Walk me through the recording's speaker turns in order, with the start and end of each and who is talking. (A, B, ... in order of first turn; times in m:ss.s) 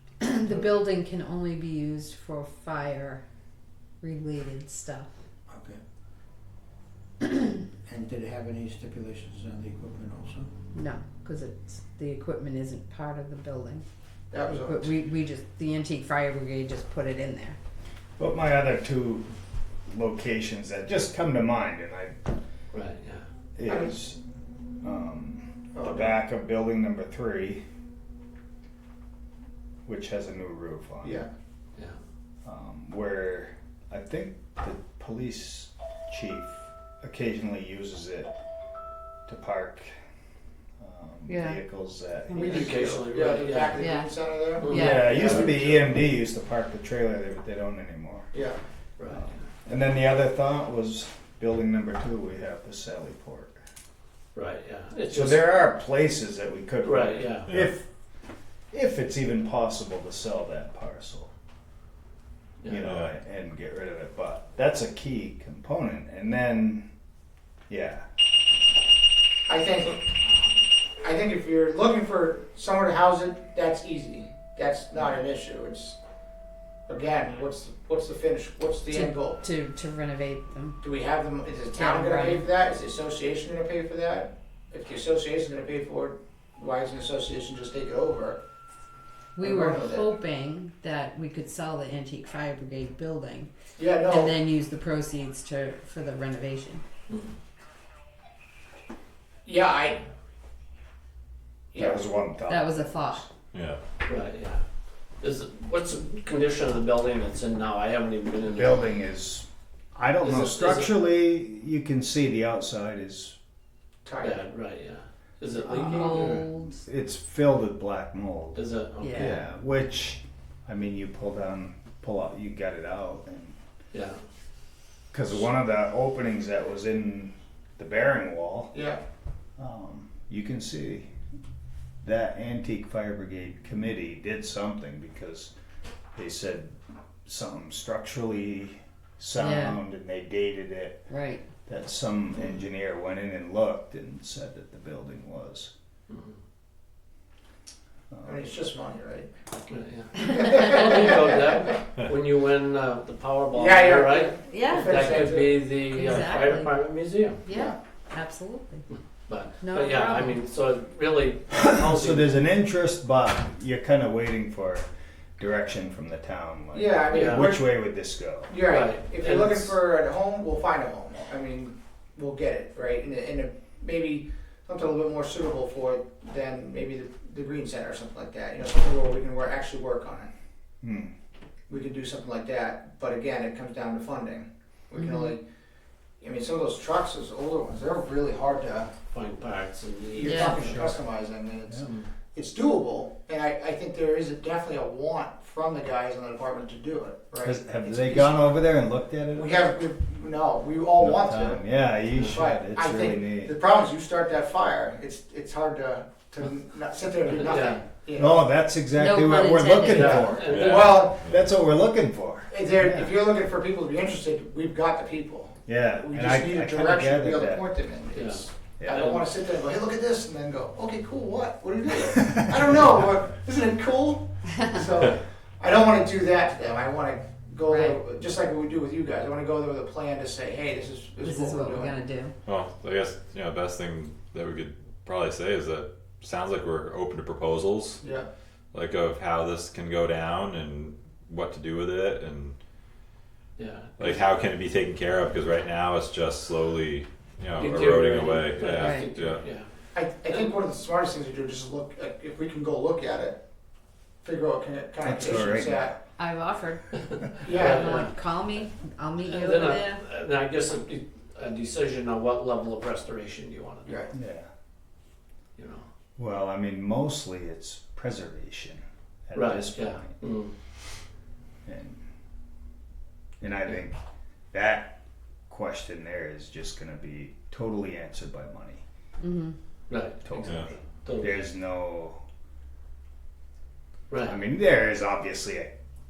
0:00.2-0:03.2 A
0:04.0-0:05.1 A
0:05.5-0:05.8 B
0:07.9-0:10.5 B
0:10.7-0:13.8 A
0:14.3-0:15.0 B
0:14.6-0:17.6 A
0:18.2-0:19.3 C
0:19.9-0:22.2 C
0:22.7-0:23.3 D
0:23.6-0:24.2 C
0:23.7-0:23.9 B
0:24.8-0:27.6 C
0:25.8-0:26.2 B
0:29.8-0:31.2 C
0:31.0-0:31.3 B
0:32.4-0:38.3 C
0:39.3-0:39.9 C
0:40.8-0:42.8 C
0:41.3-0:41.6 A
0:42.3-0:45.8 B
0:42.4-0:43.9 D
0:43.8-0:45.0 A
0:44.6-0:45.8 D
0:44.7-0:48.3 C
0:49.0-0:49.4 D
0:49.1-0:53.6 C
0:54.4-0:55.5 D
0:55.1-0:57.9 C
0:56.8-0:57.5 D
0:57.5-0:57.7 E
0:58.7-1:01.3 C
1:02.6-1:02.9 D
1:02.7-1:06.9 C
1:02.8-1:03.1 E
1:07.7-1:08.0 C
1:09.5-1:10.3 B
1:11.0-1:16.0 B
1:16.9-1:19.4 B
1:18.9-1:20.8 A
1:20.8-1:28.4 B
1:21.7-1:22.5 A
1:29.4-1:33.5 A
1:29.4-1:30.1 B
1:33.8-1:34.4 B
1:34.1-1:36.8 A
1:39.4-1:40.0 B
1:41.7-1:42.1 B
1:41.8-1:43.3 C
1:42.5-1:43.2 A
1:43.5-1:43.8 E
1:44.0-1:44.6 D
1:45.2-1:48.9 D
1:48.4-1:53.4 C
1:50.2-1:50.9 D
1:54.0-1:54.4 B
1:54.2-1:56.5 D
1:55.8-1:56.7 A
1:55.9-2:03.6 C
1:58.6-1:59.5 D
1:59.0-1:59.4 A
2:03.9-2:04.2 D
2:05.1-2:08.8 C
2:08.7-2:09.0 B
2:09.6-2:11.1 C
2:12.0-2:15.5 C
2:16.2-2:16.8 C
2:17.3-2:21.1 C
2:19.4-2:19.8 A
2:21.1-2:21.5 A
2:21.6-2:25.7 C
2:26.1-2:26.4 D
2:28.1-2:28.5 C
2:28.2-2:29.3 B
2:29.7-2:37.6 D
2:30.2-2:31.7 B
2:33.5-2:35.7 B
2:34.4-2:36.7 A
2:37.4-2:38.8 A
2:37.5-2:37.8 B
2:38.9-2:42.4 D
2:39.6-2:40.4 A
2:41.7-2:44.8 C
2:45.4-2:48.5 C
2:46.7-2:47.8 B
2:47.1-2:47.5 D
2:48.5-3:00.3 B
2:48.6-2:49.8 D
3:00.8-3:01.1 C
3:01.7-3:05.4 B
3:05.0-3:05.4 A
3:06.2-3:08.9 B
3:09.1-3:10.9 D
3:10.1-3:18.6 B
3:10.2-3:10.6 A
3:10.5-3:10.9 C
3:17.4-3:19.7 C
3:19.3-3:21.6 B
3:21.0-3:23.6 C
3:22.1-3:22.4 D
3:22.3-3:28.4 B
3:27.3-3:27.8 D
3:28.2-3:33.1 C
3:29.0-3:30.0 A
3:29.9-3:30.9 D
3:30.0-3:31.2 B
3:30.5-3:31.4 E
3:32.5-3:52.0 B
3:35.7-3:37.6 C
3:38.1-3:39.3 D
3:38.8-3:39.1 C
3:47.6-3:48.0 A
3:51.2-3:52.3 A
3:52.5-3:58.0 E
3:58.7-4:02.6 E
4:03.6-4:04.2 D
4:04.0-4:09.5 E
4:07.6-4:09.7 D
4:08.8-4:09.1 A
4:09.9-4:13.4 B
4:10.3-4:10.5 D
4:14.2-4:16.0 B
4:15.0-4:15.9 C
4:16.2-4:17.0 A
4:17.4-4:18.2 D
4:17.4-4:18.1 B
4:17.7-4:20.0 A
4:19.2-4:24.0 D
4:23.9-4:24.1 B
4:24.1-4:24.5 C
4:25.6-4:25.8 D
4:26.2-4:30.2 C
4:29.4-4:30.5 D
4:31.7-4:32.0 C
4:33.4-4:34.0 C
4:34.5-4:35.0 C
4:35.5-4:38.8 C
4:39.2-4:39.6 A
4:39.9-4:41.5 D
4:40.2-4:42.2 C
4:44.1-4:44.4 D
4:44.2-4:45.7 C